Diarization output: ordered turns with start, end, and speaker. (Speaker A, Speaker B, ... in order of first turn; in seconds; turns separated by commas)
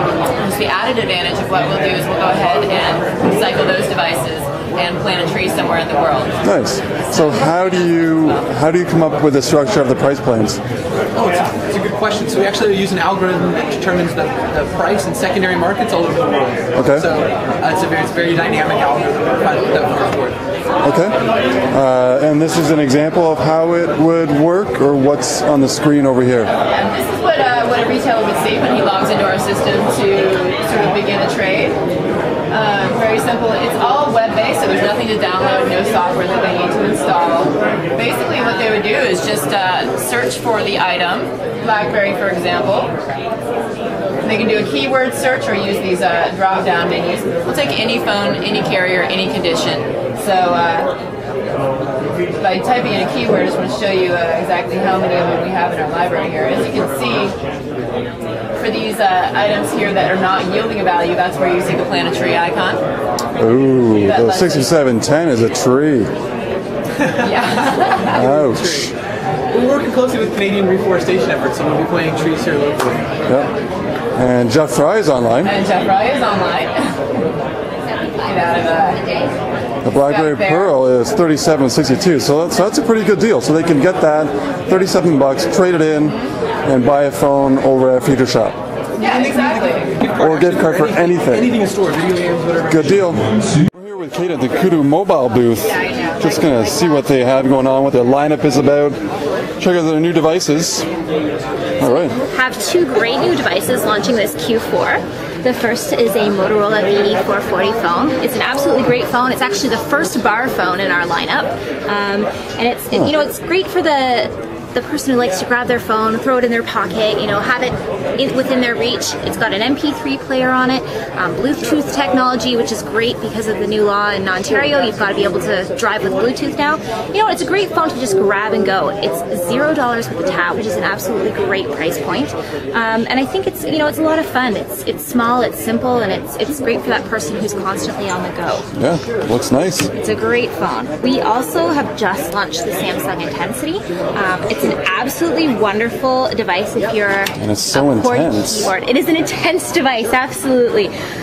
Speaker A: 0.4-6.4, Speaker B: 6.4-10.6, Speaker A: 7.1-8.4, Speaker C: 11.1-20.4, Speaker B: 16.8-17.1, Speaker B: 20.8-21.1, Speaker B: 21.7-26.5, Speaker A: 26.5-31.8, Speaker A: 32.5-43.0, Speaker A: 44.2-50.9, Speaker A: 52.4-57.3, Speaker A: 58.5-62.8, Speaker B: 63.4-66.1, Speaker A: 64.0-64.7, Speaker A: 67.2-68.2, Speaker B: 68.1-68.9, Speaker C: 68.1-68.9, Speaker C: 69.5-73.1, Speaker B: 73.3-73.5, Speaker B: 74.2-75.5, Speaker A: 75.4-76.9, Speaker A: 78.2-79.0, Speaker B: 79.8-88.6, Speaker A: 80.0-80.7, Speaker A: 89.0-90.0, Speaker C: 89.0-93.0, Speaker B: 90.2-91.5, Speaker B: 92.7-99.0, Speaker A: 95.7-96.2, Speaker B: 99.6-100.9, Speaker B: 101.8-102.2, Speaker D: 101.8-138.7, Speaker B: 138.7-139.9, Speaker D: 139.9-150.9, Speaker B: 147.4-148.7